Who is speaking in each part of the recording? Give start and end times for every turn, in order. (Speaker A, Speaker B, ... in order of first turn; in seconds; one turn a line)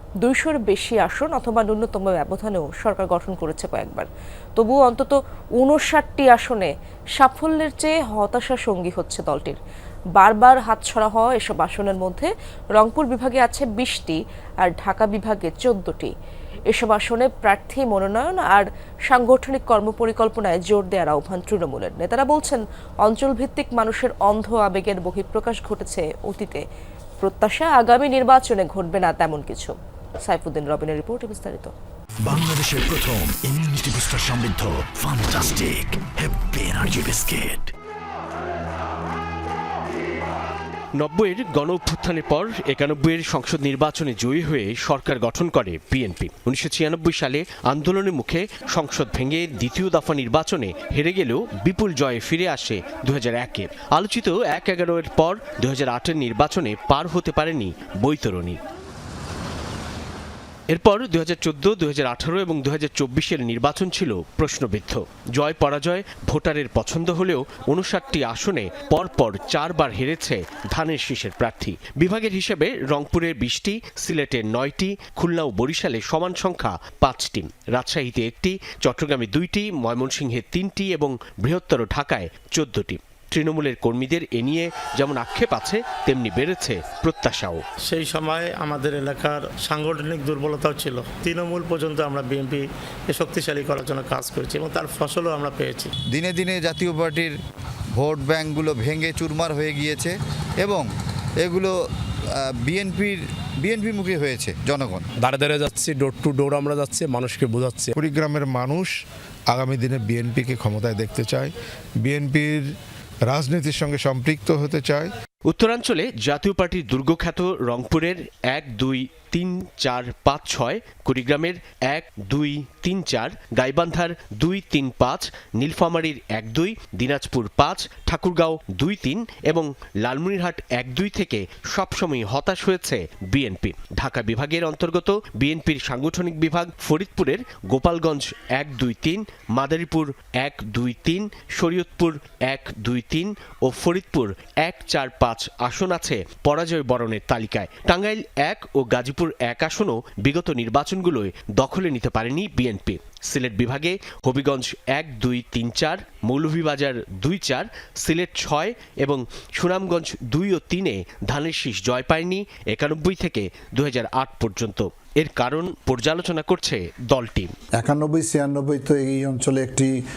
Speaker A: 0.2-9.6
Speaker A: 10.2-16.1
Speaker A: 16.7-26.6
Speaker A: 27.2-31.7
Speaker B: 32.3-37.7
Speaker C: 41.0-58.6
Speaker C: 60.7-87.6
Speaker D: 87.9-95.9
Speaker E: 96.1-97.3
Speaker E: 98.0-100.9
Speaker E: 101.4-101.7
Speaker E: 102.3-105.0
Speaker F: 105.2-107.9
Speaker G: 107.9-108.9
Speaker G: 109.5-112.7
Speaker G: 113.3-115.1
Speaker C: 115.5-167.5
Speaker H: 167.8-169.9